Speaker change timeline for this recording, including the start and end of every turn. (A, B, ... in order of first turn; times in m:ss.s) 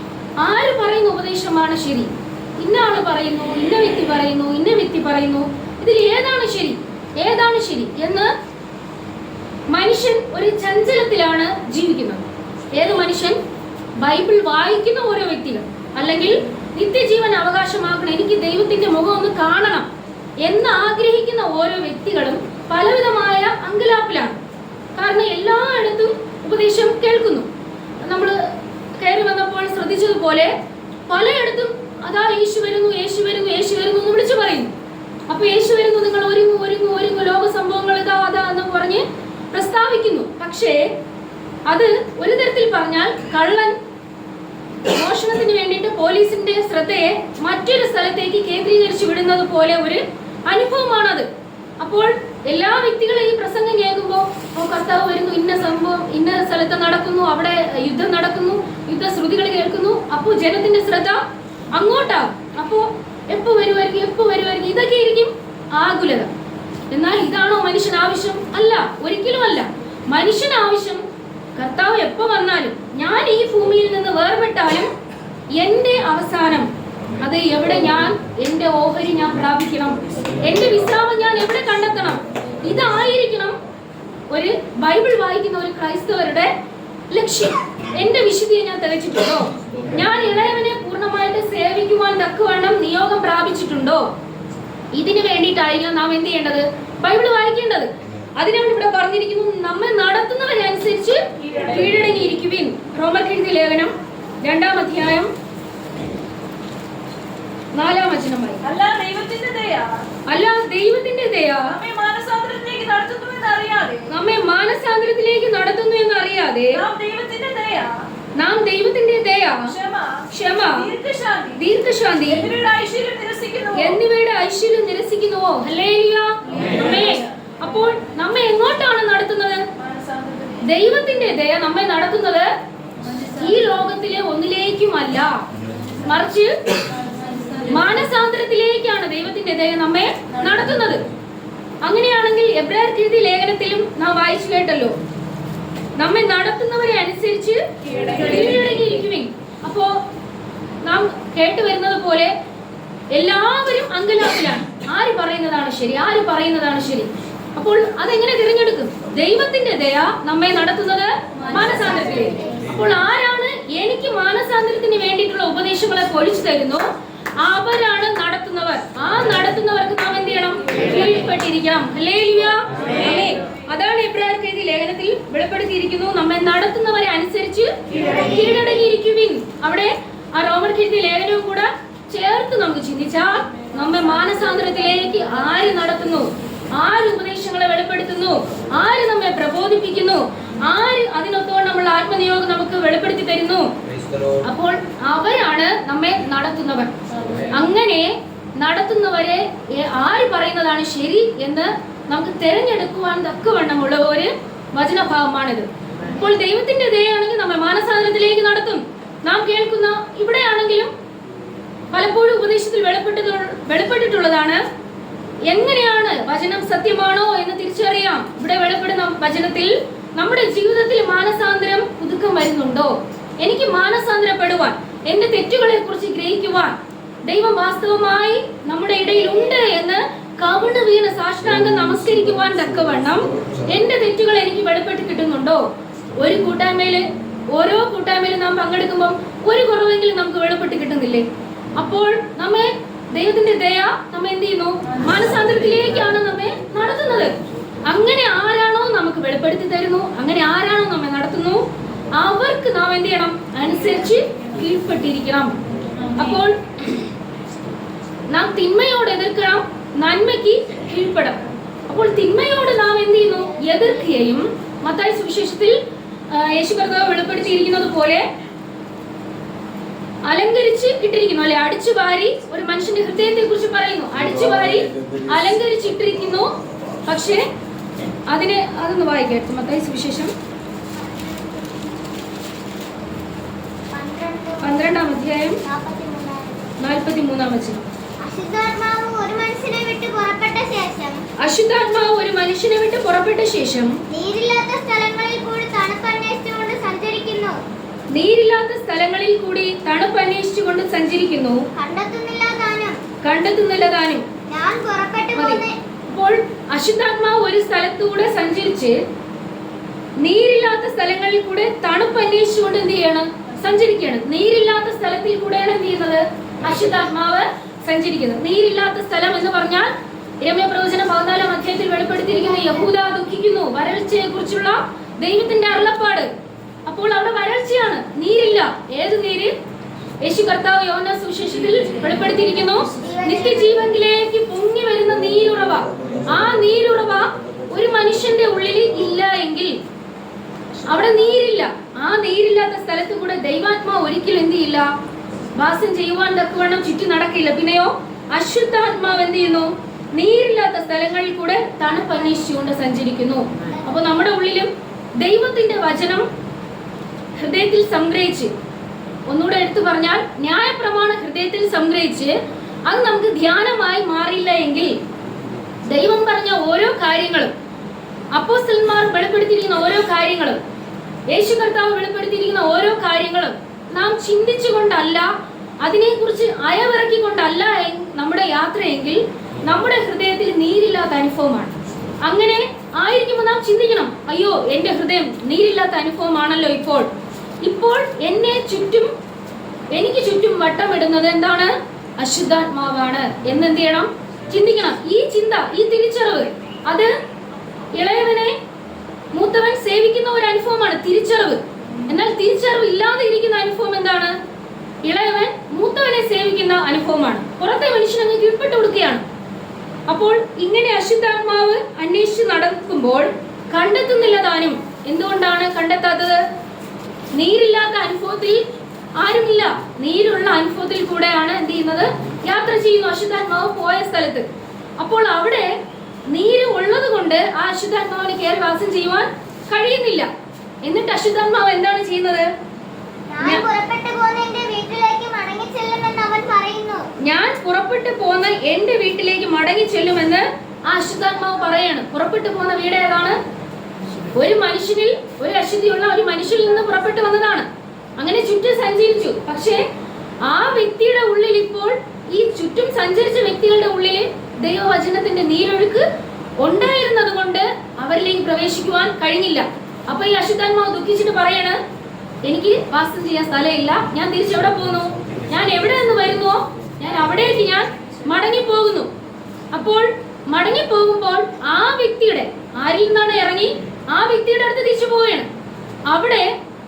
0:00.4-0:08.3 A
0:09.7-0:13.4 A
0:14.0-0:19.9 A
0:20.4-0:24.4 A
0:25.0-0:27.5 A
0:28.0-0:30.5 A
0:31.1-0:34.7 A
0:35.3-0:41.0 A
0:41.6-0:43.8 A
0:44.9-0:51.3 A
0:51.8-1:01.2 A
1:01.7-1:06.3 A
1:06.9-1:14.9 A
1:15.5-1:16.7 A
1:17.2-1:23.6 A
1:24.3-1:26.5 A
1:27.1-1:34.1 A
1:34.9-1:45.3 A
1:47.7-1:48.6 A
1:48.6-1:50.0 B
1:50.2-1:51.8 A
1:51.7-1:54.1 B
1:54.1-1:56.8 A
1:56.8-1:58.1 B
1:58.3-1:59.8 A
1:59.7-2:01.6 B
2:00.3-2:00.9 A
2:01.5-2:02.5 A
2:02.3-2:04.0 B
2:03.7-2:09.6 A
2:06.5-2:06.8 B
2:09.9-2:10.6 B
2:10.6-2:12.5 A
2:13.2-2:15.4 A
2:16.0-2:16.5 A
2:17.0-2:17.7 B
2:17.6-2:21.1 A
2:21.8-2:25.0 A
2:26.0-2:30.0 A
2:30.8-2:32.3 A
2:33.1-2:46.8 A
2:47.4-3:13.7 A
3:14.4-3:16.9 A
3:17.5-3:30.9 A
3:31.9-3:34.6 A
3:35.4-3:55.6 A
3:56.2-4:15.6 A
4:16.1-4:16.7 A
4:18.3-4:25.8 A
4:26.3-4:28.2 A
4:30.2-4:36.5 A
4:37.1-4:37.5 A
4:38.3-4:40.3 A
4:40.9-4:41.9 C
4:43.9-4:44.8 C
4:44.6-4:45.6 A
4:45.6-4:46.7 C
4:46.8-4:47.8 A
4:48.2-4:51.2 C
4:51.4-4:54.0 A
4:54.1-4:57.6 C
4:58.1-5:01.6 A
5:01.8-5:03.0 C
5:03.2-5:04.2 A
5:04.5-5:05.8 C
5:05.3-5:09.0 A
5:10.2-5:26.3 A
5:26.8-5:29.5 A
5:30.2-5:39.8 A
5:33.0-5:33.9 C
5:40.9-5:44.9 A
5:45.6-5:56.3 A
5:57.4-5:58.5 A
5:59.3-6:02.3 A
6:02.8-6:05.0 A
6:05.9-6:07.5 A
6:08.3-6:10.6 A
6:11.3-6:15.3 A
6:15.8-6:27.1 A
6:27.6-6:29.1 A
6:29.9-6:37.1 A
6:38.0-6:38.6 A
6:39.3-6:44.3 A
6:45.0-6:49.2 A
6:50.1-6:56.4 A
6:57.3-6:58.6 A
6:59.2-7:04.4 A
7:05.0-7:05.8 A
7:06.3-7:10.3 A
7:10.8-7:12.5 A
7:13.3-7:17.0 C
7:13.4-7:13.7 A
7:17.2-7:23.4 A
7:24.3-7:27.7 A
7:28.2-7:29.8 A
7:30.4-7:36.0 A
7:36.6-7:41.8 A
7:42.4-7:49.1 A
7:49.7-7:55.5 A
7:56.1-7:56.5 A